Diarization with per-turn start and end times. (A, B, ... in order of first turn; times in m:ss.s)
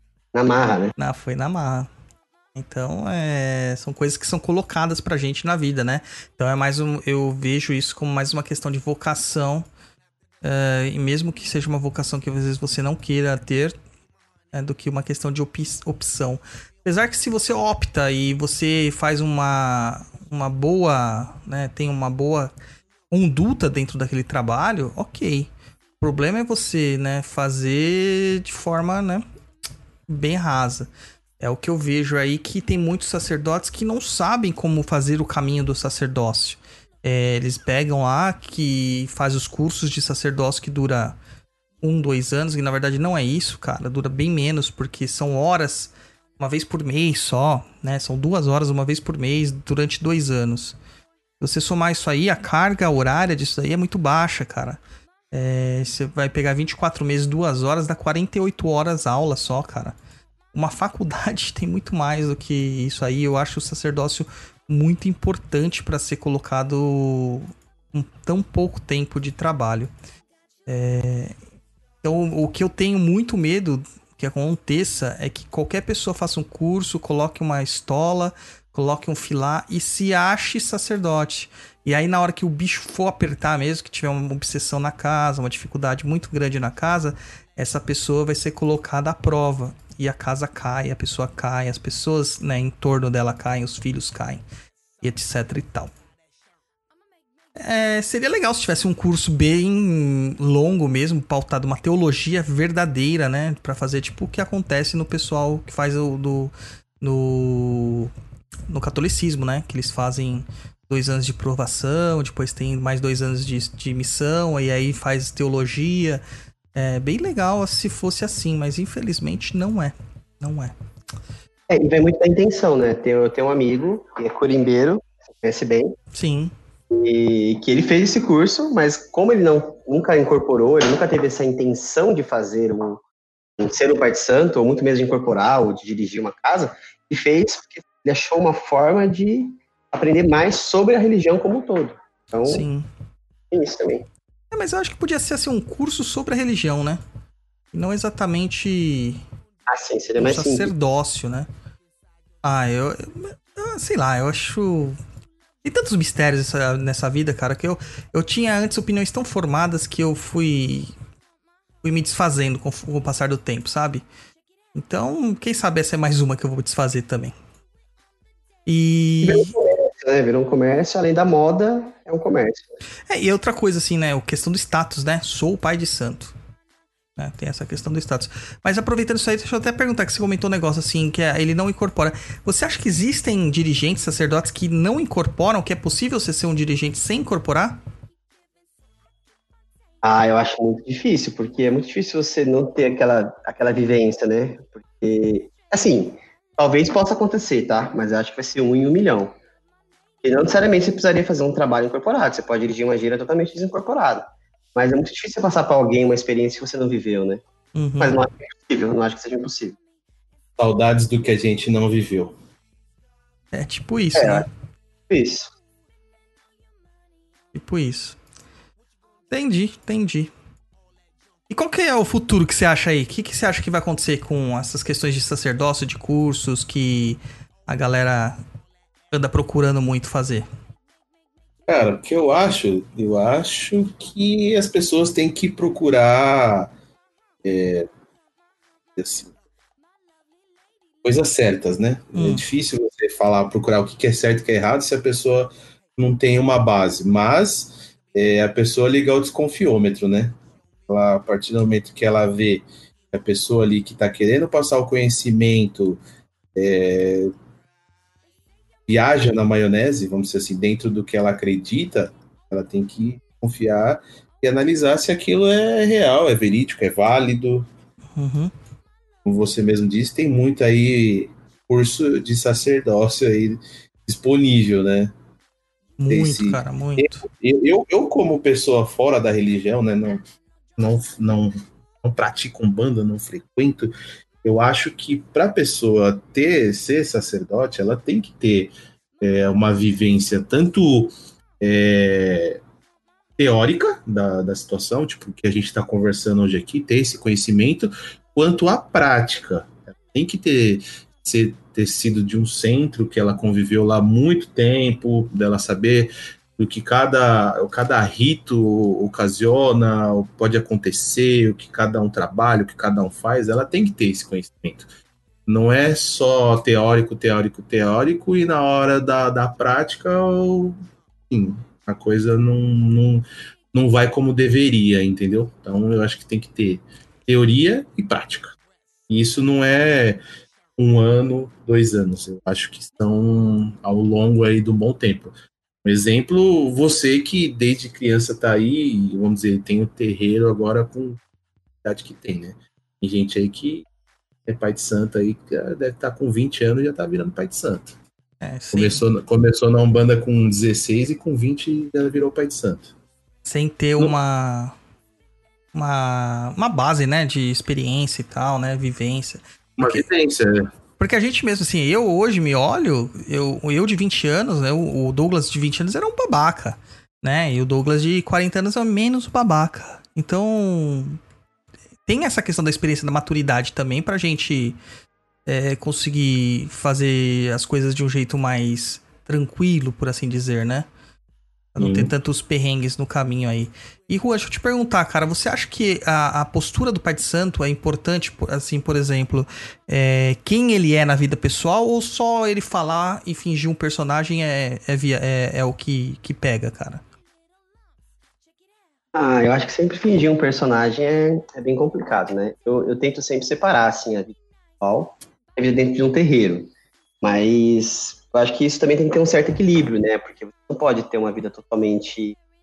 0:00.3-0:00.9 A
0:01.0-0:01.9 B
0:02.6-0:09.7 B
0:10.4-0:13.7 B
0:14.5-0:22.5 B
0:23.1-0:25.5 B
0:26.0-0:29.2 B
0:30.1-0:41.2 B
0:41.8-0:50.8 B
0:51.4-0:54.8 B
0:55.3-1:00.0 B
1:00.5-1:09.9 B
1:10.7-1:11.4 B
1:12.0-1:34.4 B
1:35.0-1:35.9 B
1:37.6-1:48.1 B
1:48.7-1:56.2 B
1:56.8-2:00.7 B
2:01.7-2:06.0 A
2:06.1-2:06.5 B
2:06.9-2:13.0 A
2:13.6-2:22.6 A
2:22.4-2:22.9 B
2:23.5-2:24.1 A
2:24.5-2:27.0 B
2:27.7-2:29.2 B
2:29.7-2:30.7 A
2:30.2-2:31.5 B
2:32.4-2:35.0 B
2:35.6-2:40.9 B
2:41.8-2:44.0 B
2:44.8-2:47.3 B
2:48.7-2:49.5 B
2:49.2-2:52.7 A
2:53.1-2:56.3 B
2:57.2-3:07.8 B
3:10.0-3:19.3 A
3:20.2-3:27.4 A
3:27.8-3:28.2 B
3:28.0-3:29.8 A
3:30.6-3:32.4 C
3:33.5-3:34.5 B
3:34.2-3:34.4 A
3:35.1-3:35.5 A
3:37.5-3:38.2 B
3:39.3-3:40.3 B
3:41.5-3:48.4 B
3:49.1-3:50.5 B
3:51.7-3:56.7 C
3:57.4-3:57.9 C
3:59.0-3:59.3 C
4:01.0-4:10.4 C
4:02.2-4:02.5 B
4:10.9-4:16.0 C
4:16.6-4:17.3 C
4:18.9-4:27.7 C
4:28.2-4:28.5 B
4:29.2-4:35.1 C
4:36.0-4:37.3 B
4:36.1-4:40.2 C
4:40.8-4:52.6 C
4:53.4-5:14.9 C
5:15.5-5:20.8 C
5:21.3-5:28.6 C
5:29.1-5:30.2 C
5:30.8-5:35.3 C
5:35.8-5:41.2 C
5:41.8-5:43.9 C
5:44.5-5:48.0 C
5:48.4-5:49.0 B
5:48.7-5:52.9 C
5:53.5-5:54.8 B
5:55.7-6:00.1 B
5:59.8-6:00.7 C
6:01.0-6:11.2 B
6:12.1-6:14.8 B
6:15.5-6:20.9 B
6:21.8-6:37.0 B
6:21.8-6:22.1 C
6:39.2-6:46.7 A
6:47.2-6:52.4 A